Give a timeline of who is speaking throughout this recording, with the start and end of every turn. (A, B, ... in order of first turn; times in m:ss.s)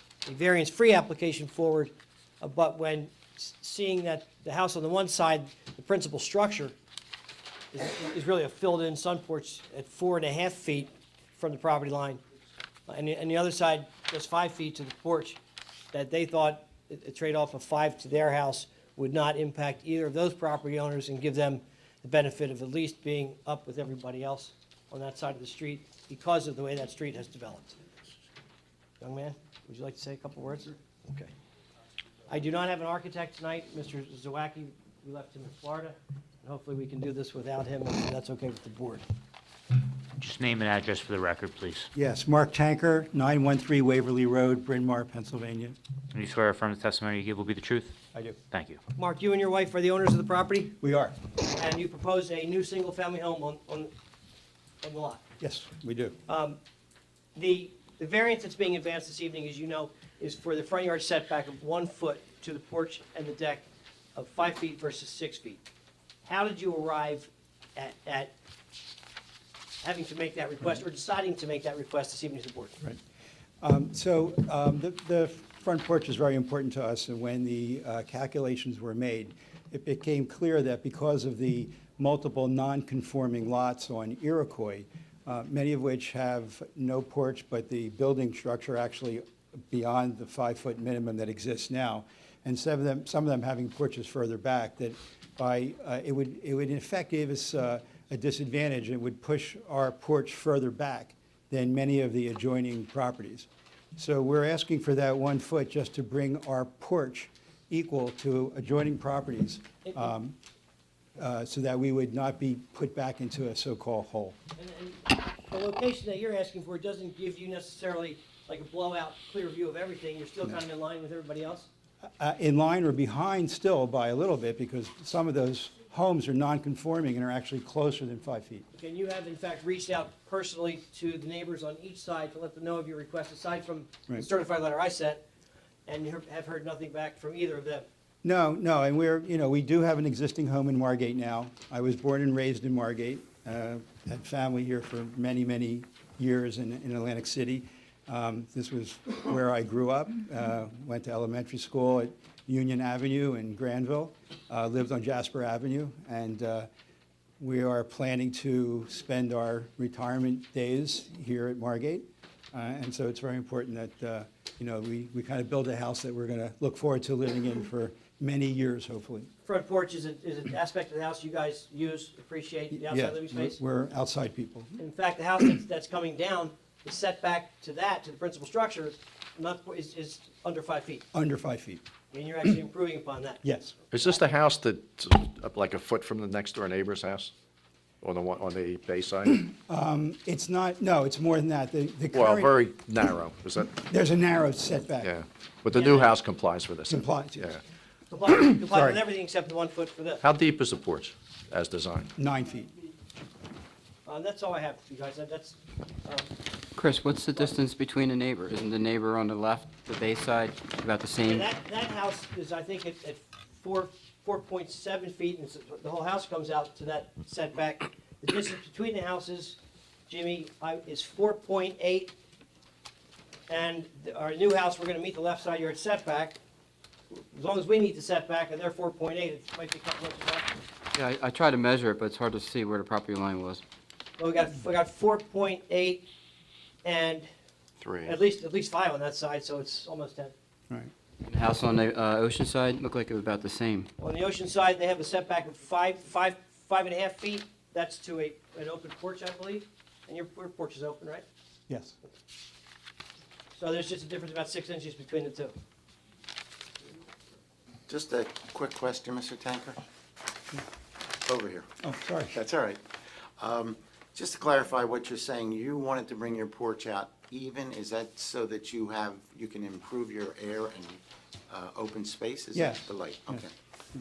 0:00.2-0:06.7 A
0:07.7-0:12.2 A
0:12.9-0:15.4 A
0:15.9-0:27.8 A
0:29.0-0:31.3 A
0:32.3-0:39.0 A
0:40.2-0:41.9 B
0:41.9-0:45.8 C
0:46.1-0:47.9 B
0:48.1-0:48.4 C
0:48.5-0:48.8 B
0:49.0-0:50.8 A
0:50.8-0:51.2 C
0:51.4-0:53.9 A
0:54.8-0:55.2 A
0:55.4-0:56.2 C
0:56.3-0:56.6 A
0:57.3-1:05.6 A
1:06.2-1:08.3 A
1:09.8-1:12.8 A
1:13.6-1:50.4 C
1:51.2-1:54.4 C
1:54.6-2:01.7 A
2:02.2-2:08.6 C
2:08.8-2:15.2 A
2:15.8-2:17.9 A
2:18.2-2:36.7 C
2:37.4-2:49.3 C
2:49.4-2:53.6 A
2:52.7-2:54.8 C
2:54.8-3:01.0 A
3:01.1-3:01.8 C
3:02.1-3:03.4 A
3:03.4-3:03.8 C
3:03.9-3:07.3 D
3:08.0-3:09.4 D
3:09.5-3:12.5 C
3:12.1-3:13.8 D
3:13.9-3:15.1 C
3:15.0-3:17.6 D
3:15.7-3:16.1 A
3:16.9-3:17.6 C
3:18.1-3:20.2 A
3:18.5-3:19.0 C
3:20.2-3:22.1 D
3:22.2-3:22.7 C
3:24.0-3:26.3 A
3:26.8-3:31.4 E
3:31.2-3:42.1 A
3:43.5-3:46.4 A
3:47.1-3:50.6 A
3:50.9-3:53.6 E
3:54.2-3:56.1 A
3:56.8-3:57.3 A
3:57.8-3:58.2 D
3:58.0-4:00.3 A
4:01.2-4:03.9 E
4:04.0-4:11.2 A
4:11.7-4:12.0 C
4:13.6-4:15.5 A
4:17.9-4:19.8 F
4:21.2-4:21.7 F
4:21.8-4:22.4 C
4:22.3-4:22.8 F
4:23.4-4:33.5 F
4:32.5-4:33.4 C